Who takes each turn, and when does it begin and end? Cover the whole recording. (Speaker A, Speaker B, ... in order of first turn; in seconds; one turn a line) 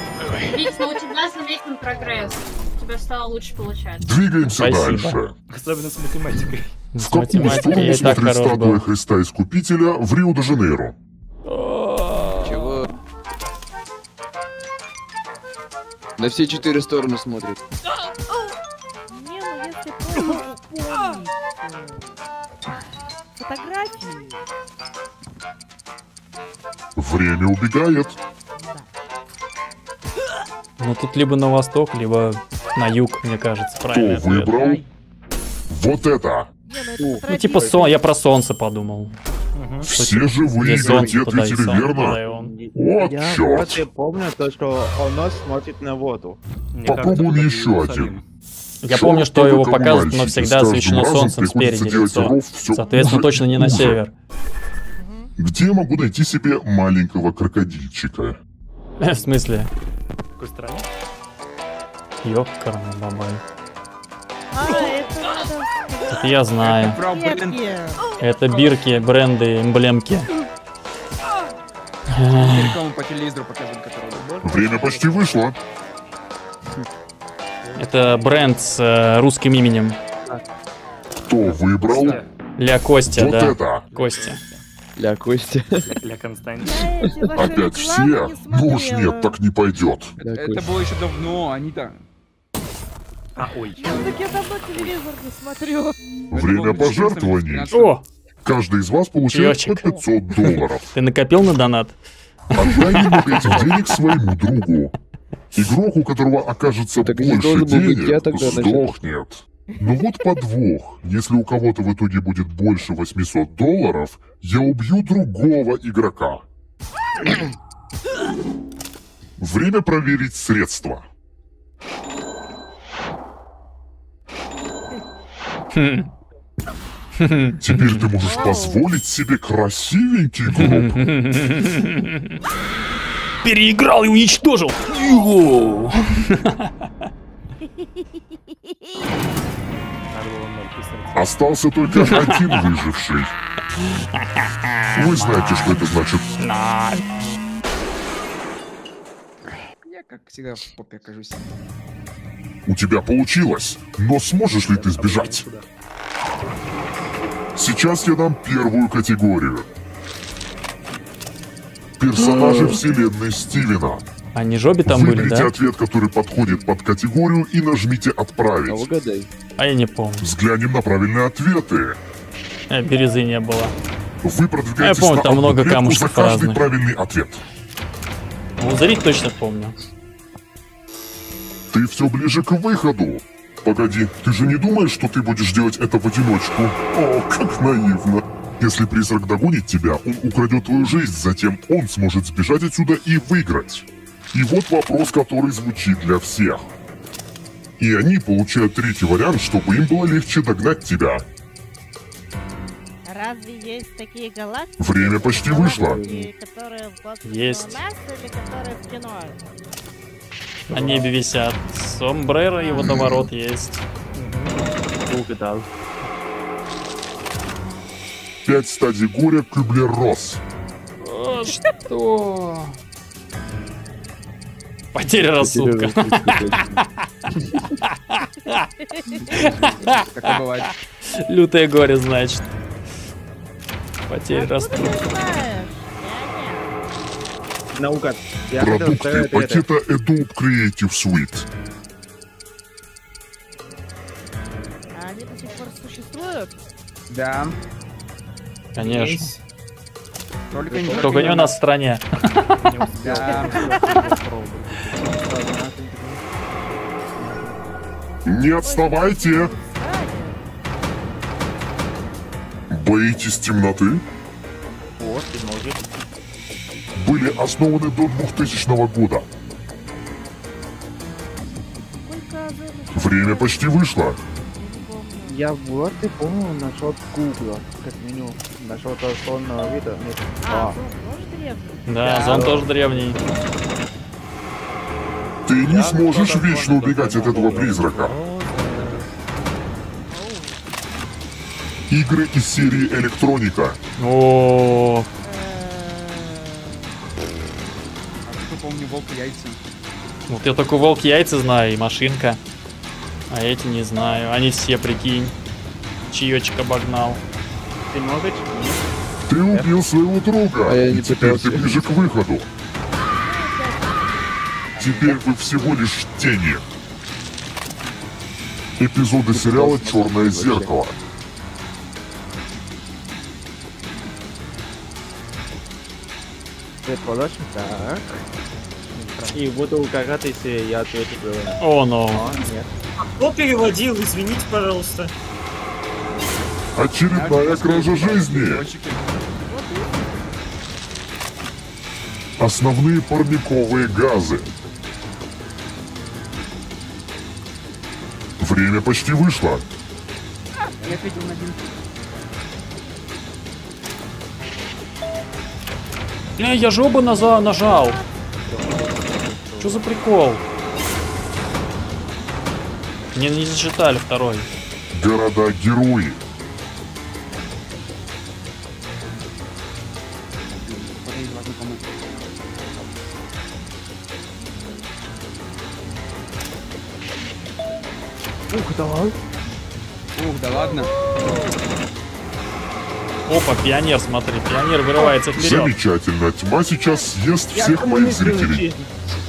Speaker A: 0.5-4.2
Speaker B: 4.0-5.3
Speaker C: 4.6-5.2
Speaker D: 5.5-6.7
Speaker C: 6.9-8.8
Speaker B: 7.0-10.9
Speaker C: 11.4-12.9
Speaker E: 12.4-12.9
Speaker E: 16.2-17.6
Speaker F: 19.1-22.1
Speaker F: 23.4-24.4
Speaker B: 26.9-28.2
Speaker F: 28.5-28.9
Speaker C: 30.8-34.6
Speaker B: 33.9-34.8
Speaker B: 35.7-36.5
Speaker F: 36.7-38.0
Speaker G: 37.0-37.8
Speaker C: 37.3-39.2
Speaker D: 39.5-39.9
Speaker B: 39.8-42.2
Speaker C: 39.9-42.5
Speaker G: 40.8-41.2
Speaker G: 42.2-46.4
Speaker B: 42.7-43.8
Speaker D: 46.7-48.2
Speaker B: 46.8-48.1
Speaker C: 48.8-54.1
Speaker B: 48.9-54.0
Speaker F: 55.0-55.3
Speaker B: 55.4-58.4
Speaker C: 59.0-59.7
Speaker D: 60.4-60.9
Speaker C: 62.2-63.4
Speaker F: 64.5-66.4
Speaker C: 66.1-67.0
Speaker H: 66.6-67.6
Speaker F: 67.0-69.0
Speaker C: 68.2-70.3
Speaker C: 72.1-72.8
Speaker H: 72.3-74.3
Speaker D: 74.1-75.5
Speaker B: 74.4-75.6
Speaker D: 77.6-78.7
Speaker C: 77.8-80.0
Speaker B: 81.2-82.2
Speaker H: 81.8-82.2
Speaker D: 81.9-82.3
Speaker C: 82.6-84.4
Speaker B: 83.1-83.8
Speaker D: 83.9-84.6
Speaker E: 85.0-85.9
Speaker D: 85.8-86.9
Speaker F: 86.6-89.3
Speaker B: 87.3-90.2
Speaker E: 90.2-90.8
Speaker H: 90.2-92.0
Speaker D: 93.3-94.2
Speaker F: 93.8-96.0
Speaker B: 96.3-97.7
Speaker H: 96.3-98.0
Speaker C: 97.7-98.0
Speaker B: 98.4-100.9
Speaker C: 99.3-99.9
Speaker C: 100.9-102.0
Speaker B: 102.5-104.9
Speaker C: 102.6-103.6
Speaker B: 105.5-116.4
Speaker E: 107.0-108.9
Speaker B: 119.4-121.1
Speaker C: 125.7-126.1
Speaker C: 127.2-128.1
Speaker B: 127.6-131.1
Speaker F: 128.2-128.8
Speaker C: 130.5-132.3
Speaker C: 133.4-136.7
Speaker D: 140.1-141.3
Speaker B: 141.1-143.3
Speaker C: 141.9-142.6
Speaker C: 144.1-145.9
Speaker B: 144.9-146.3
Speaker C: 146.4-147.1
Speaker H: 149.8-151.5
Speaker B: 152.7-155.4
Speaker D: 154.6-155.7
Speaker B: 157.5-159.7
Speaker B: 162.0-164.0
Speaker C: 162.2-162.8
Speaker C: 164.3-165.5
Speaker B: 164.8-168.9
Speaker E: 168.7-169.3
Speaker C: 169.6-170.3
Speaker B: 170.2-172.0
Speaker C: 172.7-173.7
Speaker B: 174.2-177.4
Speaker C: 174.8-176.6
Speaker C: 178.6-179.8
Speaker B: 181.7-196.7
Speaker B: 197.8-201.2
Speaker F: 203.1-209.4
Speaker B: 204.8-206.0
Speaker E: 205.7-206.3
Speaker C: 207.2-207.8
Speaker D: 210.7-211.0
Speaker C: 210.7-213.8
Speaker F: 212.5-212.9
Speaker B: 212.8-213.2
Speaker D: 214.1-214.6
Speaker G: 215.1-215.7
Speaker B: 218.4-220.4
Speaker C: 221.0-222.8
Speaker C: 224.9-227.0
Speaker E: 225.4-226.8
Speaker C: 228.1-228.6
Speaker F: 228.9-229.5
Speaker C: 229.3-230.3
Speaker H: 230.1-230.7
Speaker C: 231.3-232.5
Speaker C: 234.1-235.1
Speaker F: 234.3-236.8
Speaker G: 237.8-239.6
Speaker B: 238.6-241.5
Speaker F: 244.9-246.5
Speaker H: 247.1-247.6
Speaker C: 248.7-249.3
Speaker H: 248.8-249.4
Speaker H: 250.5-251.6
Speaker D: 250.7-251.4
Speaker G: 250.7-251.4
Speaker C: 250.9-252.4
Speaker D: 252.6-255.2
Speaker H: 253.0-253.7
Speaker F: 253.2-254.2
Speaker G: 255.2-256.3
Speaker D: 256.5-257.6
Speaker B: 258.2-259.5
Speaker F: 258.6-260.4
Speaker B: 262.7-264.0
Speaker G: 265.0-266.0
Speaker B: 266.9-269.2
Speaker F: 272.0-275.5
Speaker B: 272.9-274.2
Speaker G: 275.2-280.8
Speaker F: 280.4-282.7
Speaker C: 281.9-283.2
Speaker G: 282.0-283.1
Speaker B: 285.5-288.1
Speaker D: 285.7-289.1
Speaker G: 287.1-287.9
Speaker F: 290.1-290.6
Speaker B: 291.9-293.8
Speaker C: 294.0-295.1
Speaker F: 295.2-296.9
Speaker H: 298.2-299.6
Speaker C: 300.3-302.4
Speaker C: 303.3-305.3
Speaker C: 306.1-307.2
Speaker G: 307.9-308.8
Speaker B: 309.3-312.5
Speaker E: 310.6-312.0
Speaker F: 313.2-314.4
Speaker G: 314.8-315.2
Speaker B: 314.8-316.6
Speaker B: 318.8-320.9
Speaker E: 319.3-320.7
Speaker G: 326.8-328.2
Speaker D: 328.9-329.6
Speaker G: 329.3-332.7
Speaker C: 331.6-332.3
Speaker I: 333.0-335.1
Speaker B: 336.7-338.7
Speaker H: 337.1-339.1
Speaker F: 339.4-340.0
Speaker B: 342.4-344.5
Speaker B: 348.4-349.6
Speaker D: 350.8-351.0
Speaker H: 350.8-351.7
Speaker C: 356.4-358.0
Speaker F: 357.1-357.9
Speaker D: 358.4-359.6
Speaker C: 359.6-360.4
Speaker C: 363.1-364.5
Speaker B: 364.9-366.2
Speaker G: 370.7-370.9
Speaker H: 370.9-371.8
Speaker G: 378.5-379.1
Speaker H: 380.1-380.9
Speaker C: 383.3-385.7
Speaker B: 385.4-388.7
Speaker G: 387.5-388.9